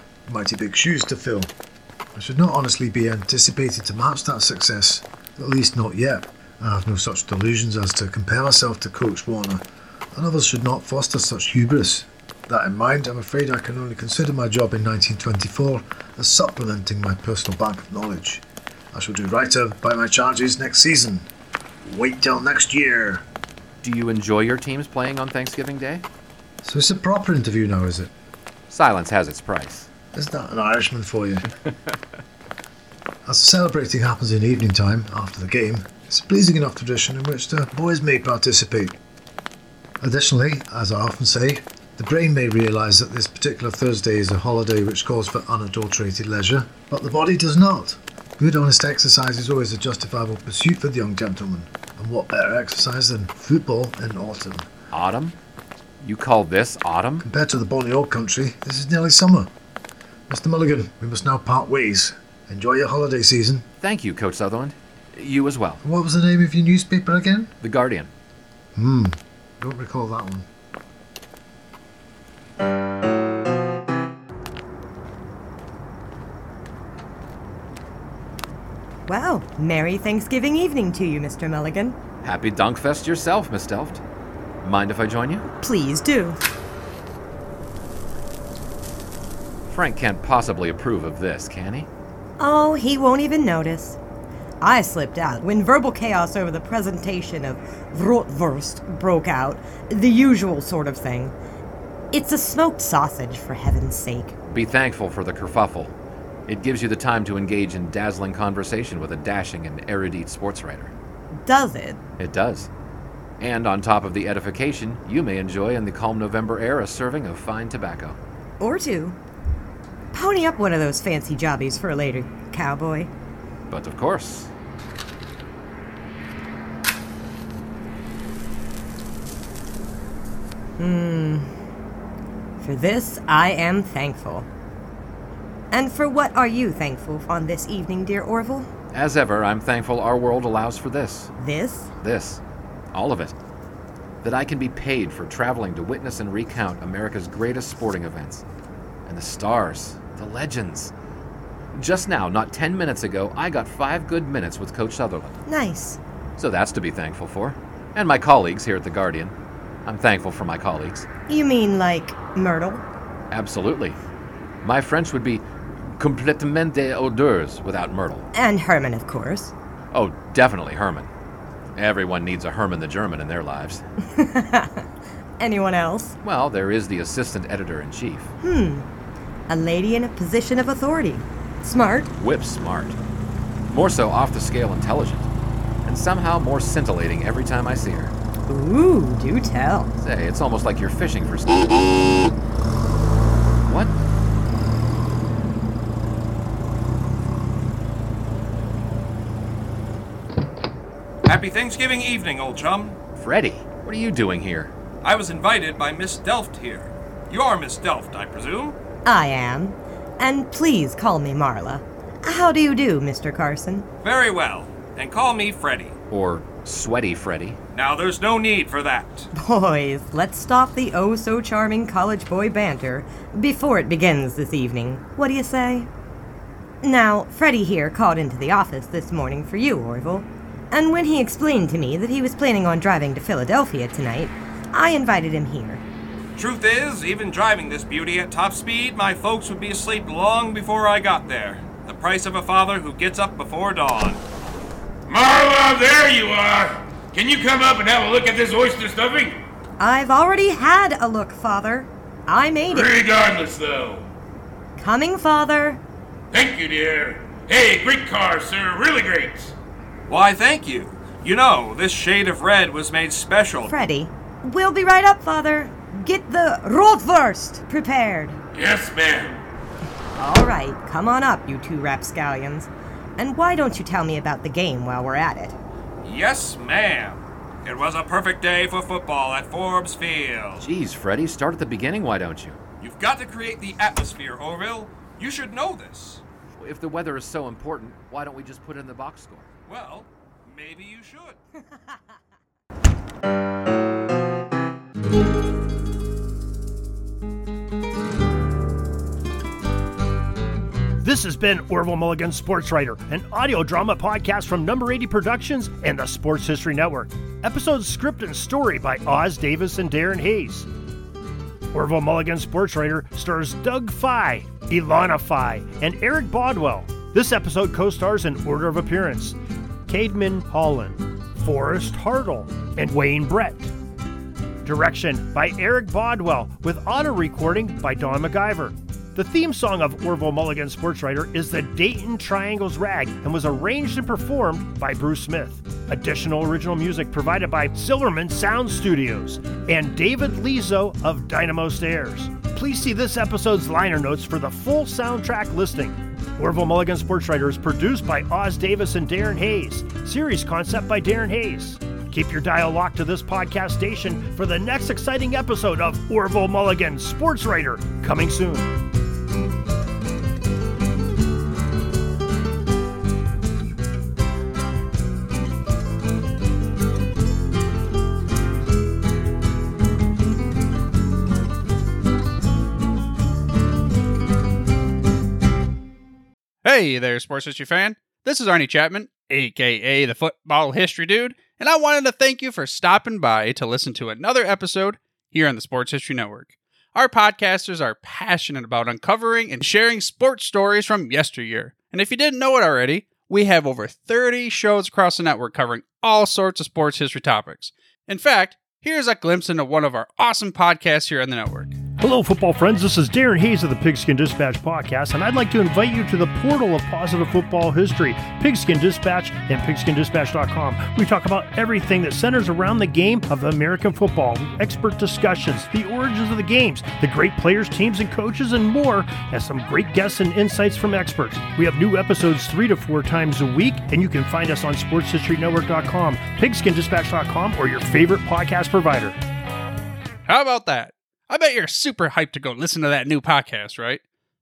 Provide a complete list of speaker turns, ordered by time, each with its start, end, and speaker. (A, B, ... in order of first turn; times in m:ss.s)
0:00.3-0:01.5 A
0:02.1-0:09.6 A
0:10.1-0:21.3 A
0:21.8-0:23.2 A
0:23.8-0:26.0 B
0:26.6-0:28.1 A
0:28.7-0:29.9 B
0:30.1-0:31.4 A
0:33.2-0:39.0 A
0:40.0-0:54.7 A
0:54.9-0:55.4 B
0:56.0-0:57.2 B
0:57.2-0:59.5 A
1:00.3-1:03.6 A
1:03.8-1:05.8 B
1:05.8-1:07.5 A
1:07.6-1:08.1 B
1:08.7-1:10.5 A
1:19.1-1:22.0 C
1:22.2-1:24.0 B
1:24.6-1:25.5 B
1:25.6-1:26.4 C
1:29.7-1:31.9 B
1:32.4-1:34.0 C
1:34.6-1:41.3 C
1:42.1-1:44.3 C
1:44.5-1:45.9 B
1:46.5-1:50.9 B
1:51.4-1:52.0 C
1:52.2-1:52.7 B
1:53.4-1:58.2 B
1:58.6-1:59.2 C
2:00.1-2:03.1 C
2:03.7-2:04.5 B
2:10.8-2:11.5 C
2:12.6-2:14.5 C
2:15.7-2:18.7 C
2:18.9-2:21.3 B
2:21.4-2:21.9 C
2:22.0-2:22.4 B
2:22.9-2:23.3 B
2:24.2-2:28.4 B
2:29.0-2:30.9 B
2:31.7-2:35.4 B
2:35.4-2:36.0 C
2:36.4-2:41.1 B
2:41.3-2:42.8 C
2:43.3-2:44.0 B
2:44.6-2:48.3 B
2:48.3-2:49.5 C
2:49.9-2:51.1 B
2:51.7-2:53.8 B
2:54.0-2:54.9 C
2:55.4-2:56.2 C
2:56.2-2:58.3 B
2:58.4-2:58.9 C
2:59.5-3:02.1 C
3:02.2-3:03.0 B
3:03.7-3:05.3 B
3:05.8-3:08.1 B
3:08.5-3:09.9 C
3:10.0-3:11.9 B
3:13.6-3:14.0 B
3:21.2-3:23.0 D
3:23.2-3:24.7 B
3:25.0-3:28.8 D
3:29.0-3:33.8 C
3:34.0-3:36.0 D
3:36.1-3:37.6 B
3:37.7-3:39.3 D
3:39.3-3:45.9 C
3:46.8-3:55.8 C
3:56.4-4:04.2 D
4:05.1-4:09.4 E
4:09.8-4:12.9 C
4:12.7-4:14.1 E
4:14.8-4:15.8 C
4:16.3-4:19.5 E
4:20.1-4:23.7 D
4:23.6-4:28.4 C
4:28.5-4:29.4 E
4:30.2-4:35.6 C
4:36.0-4:40.6 D
4:40.6-4:42.6 B
4:42.8-4:46.2 D
4:46.6-4:49.5 B
4:49.7-4:51.4 D
5:01.0-5:10.7 F
5:11.7-5:19.4 F
5:19.9-5:23.7 F
5:24.6-5:58.8 F
6:16.6-6:41.8 G
6:42.0-7:09.2 F
7:10.3-7:14.0 G